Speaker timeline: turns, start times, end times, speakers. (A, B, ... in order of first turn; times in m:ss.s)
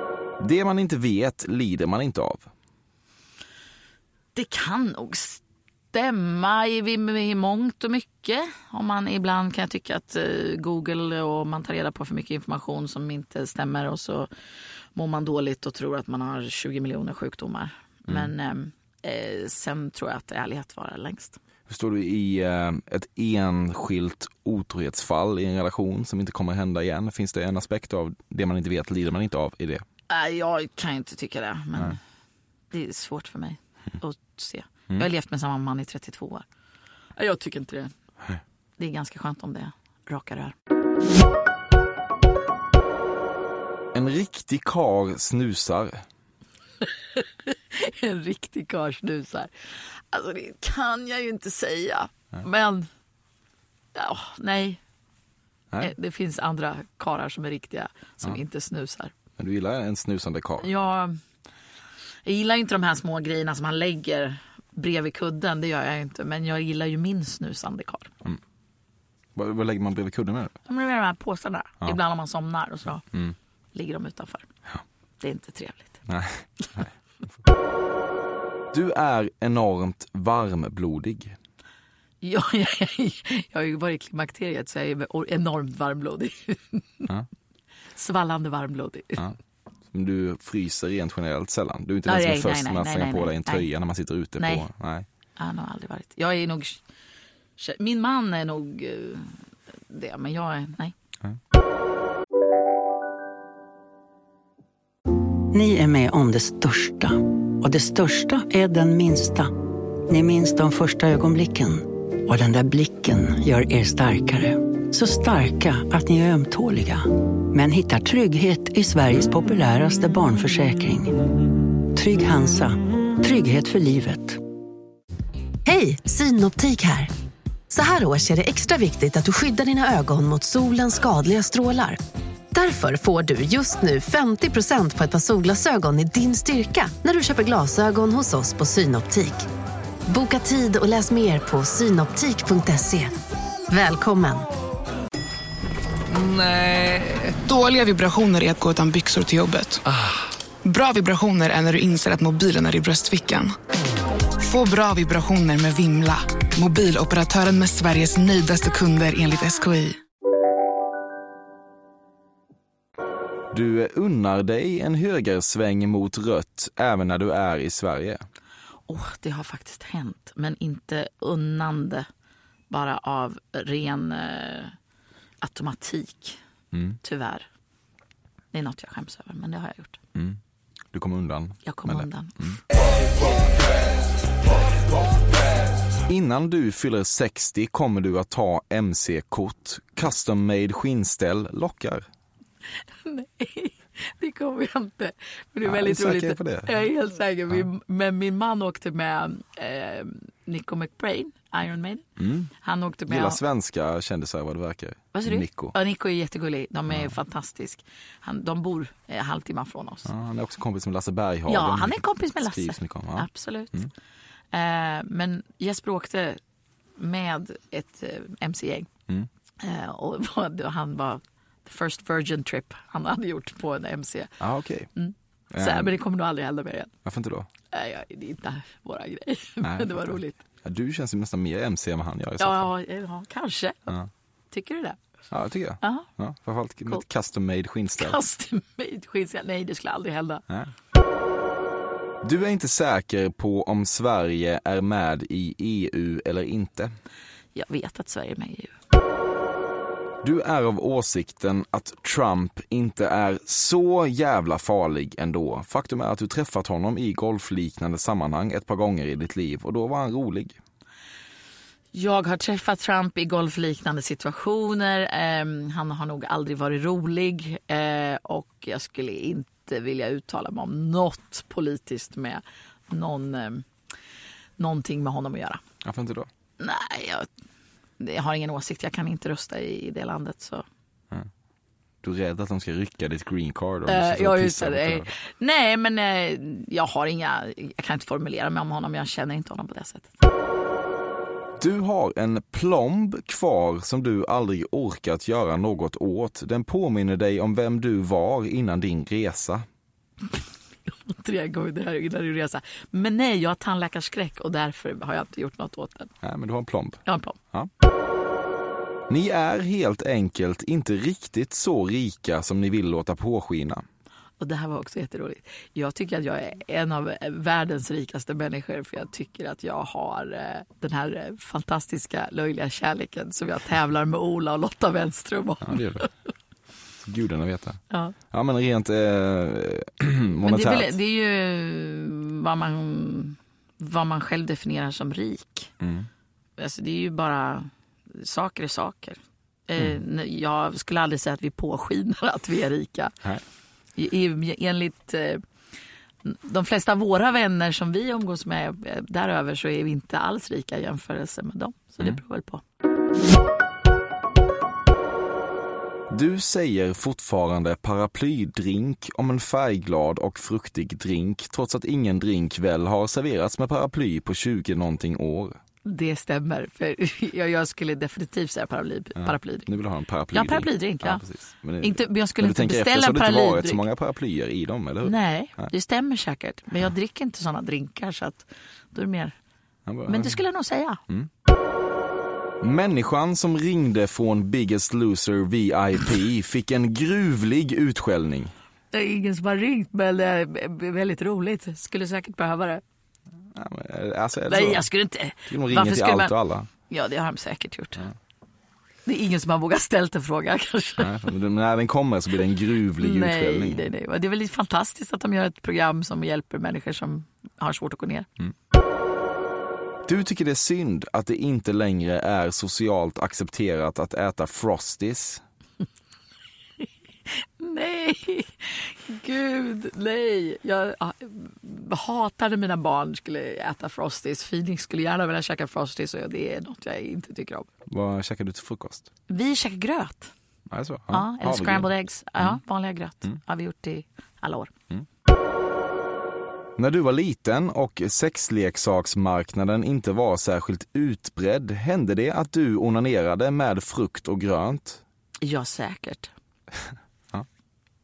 0:00.4-0:02.5 A
0:04.4-0:05.4 B
0:05.9-0:14.3 B
0:15.0-0:21.4 B
0:21.7-0:29.8 A
0:30.1-0:32.0 B
0:32.7-0:36.4 B
0:37.2-0:37.9 B
0:38.8-0:40.5 B
0:43.9-0:46.0 A
0:47.2-0:49.5 B
0:50.1-0:52.9 B
0:54.0-0:54.8 B
0:55.8-0:59.1 B
0:59.4-1:00.7 A
1:00.6-1:01.2 B
1:02.3-1:08.1 B
1:09.4-1:10.6 A
1:10.7-1:13.0 B
1:13.7-1:14.5 B
1:15.2-1:16.0 B
1:16.1-1:16.9 A
1:18.7-1:21.4 A
1:22.2-1:27.1 B
1:28.0-1:29.3 B
1:29.9-1:35.1 A
1:32.1-1:33.7 B
1:34.4-1:34.7 B
1:35.4-1:36.8 B
1:37.6-1:40.9 B
1:45.5-2:01.3 C
2:01.8-2:04.4 C
2:05.7-2:07.1 D
2:07.7-2:12.0 D
2:12.5-2:19.5 D
2:20.1-2:23.2 D
2:23.7-2:24.5 D
2:26.1-2:29.9 E
2:30.6-2:33.6 E
2:34.4-2:40.0 E
2:43.5-2:48.2 A
2:48.9-2:52.1 B
2:52.7-2:54.8 B
2:55.4-2:56.4 B
2:56.7-2:57.0 A
2:57.0-2:57.5 B
2:58.5-3:00.0 B
3:00.9-3:02.6 A
3:01.6-3:02.6 B
3:06.1-3:12.1 A
3:13.0-3:22.0 B
3:15.6-3:16.8 A
3:22.2-3:22.5 A
3:22.6-3:23.4 B
3:23.1-3:25.8 A
3:25.1-3:30.1 B
3:26.9-3:27.1 A
3:30.0-3:33.9 A
3:31.5-3:33.8 B
3:34.5-3:36.4 B
3:37.0-3:38.9 B
3:39.6-3:44.4 B
3:44.4-3:44.9 A
3:45.0-3:46.9 B
3:45.5-3:46.0 A
3:47.0-3:47.5 A
3:47.7-3:50.4 B
3:49.6-3:52.7 A
3:52.4-3:54.0 B
3:54.5-3:55.0 B
3:55.3-3:58.2 A
3:55.8-3:56.1 B
3:58.0-4:00.4 B
4:02.2-4:06.9 A
4:07.6-4:08.7 B
4:10.2-4:20.6 A
4:21.9-4:33.7 B
4:34.6-4:35.6 B
4:35.8-4:36.3 A
4:36.6-4:37.3 B
4:38.0-4:40.6 B
4:42.0-4:45.2 A
4:43.9-4:50.1 B
4:51.6-4:59.7 A
5:00.9-5:06.1 B
5:06.2-5:07.7 A
5:07.0-5:07.4 B
5:09.1-5:13.8 A
5:14.4-5:26.1 B
5:25.6-5:26.1 A
5:27.0-5:31.0 A
5:27.9-5:28.2 B
5:30.4-5:35.7 B
5:35.8-5:36.1 A
5:36.6-5:43.2 B
5:44.0-5:45.4 B
5:46.2-5:52.6 B
5:56.1-6:05.6 A
6:05.8-6:09.7 B
6:09.2-6:15.7 A
6:10.3-6:11.2 B
6:11.8-6:13.9 B
6:15.0-6:19.3 B
6:19.9-6:20.4 A
6:20.1-6:21.0 B
6:22.6-6:28.5 A
6:28.9-6:32.8 B
6:33.5-6:34.9 A
6:34.5-6:36.3 B
6:35.5-6:36.7 A
6:36.9-6:38.1 B
6:39.1-6:41.1 B
6:41.0-6:43.9 A
6:43.0-6:48.3 B
6:50.1-6:55.4 A
6:57.3-7:07.7 B
7:07.9-7:09.1 A
7:09.3-7:10.3 B
7:10.7-7:12.6 A
7:11.1-7:14.7 B
7:16.8-7:25.0 A
7:25.4-7:26.3 B